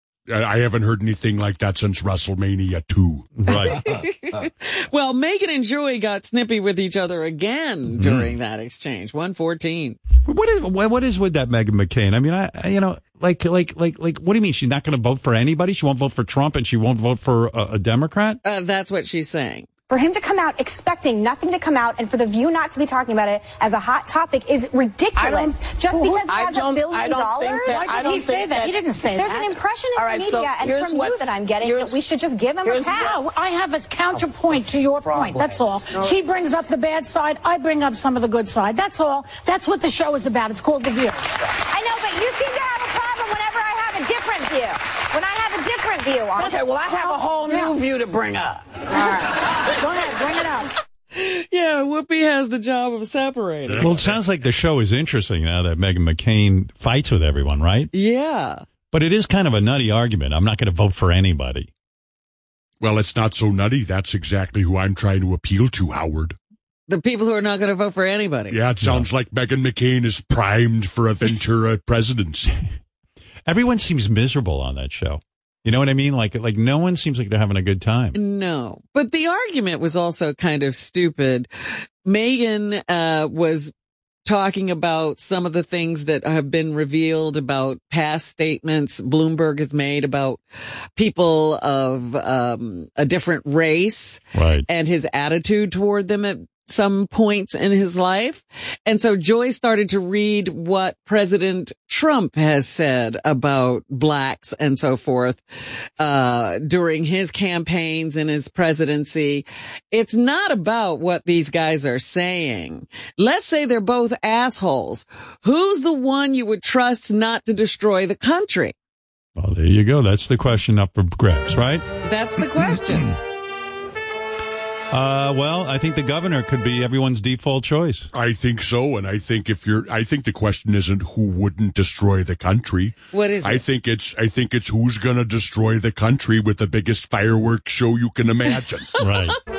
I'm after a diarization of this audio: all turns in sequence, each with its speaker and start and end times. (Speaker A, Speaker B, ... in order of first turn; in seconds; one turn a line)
Speaker A: 0.3-3.3
Speaker B: 3.4-3.8
Speaker C: 3.5-10.0
Speaker B: 7.9-8.3
Speaker B: 10.2-18.4
Speaker C: 18.4-19.7
Speaker D: 19.9-28.2
Speaker E: 25.1-28.8
Speaker F: 27.6-29.5
Speaker D: 29.1-33.3
Speaker E: 29.9-32.0
Speaker E: 32.6-33.2
Speaker F: 33.0-41.3
Speaker E: 35.0-36.1
Speaker D: 41.7-46.6
Speaker F: 46.4-47.7
Speaker E: 46.4-49.1
Speaker F: 49.0-50.6
Speaker C: 51.1-53.9
Speaker A: 53.7-54.2
Speaker B: 53.8-57.9
Speaker C: 57.9-58.6
Speaker B: 58.9-61.7
Speaker A: 62.8-66.3
Speaker C: 66.9-68.6
Speaker A: 68.5-72.6
Speaker B: 68.8-69.1
Speaker B: 73.5-78.2
Speaker C: 78.1-83.7
Speaker C: 84.2-90.4
Speaker C: 91.0-105.4
Speaker B: 94.3-94.7
Speaker C: 106.0-118.7
Speaker B: 119.3-121.9
Speaker C: 122.0-123.1
Speaker B: 124.9-128.1
Speaker A: 128.1-138.9
Speaker C: 133.1-133.6
Speaker B: 139.0-139.4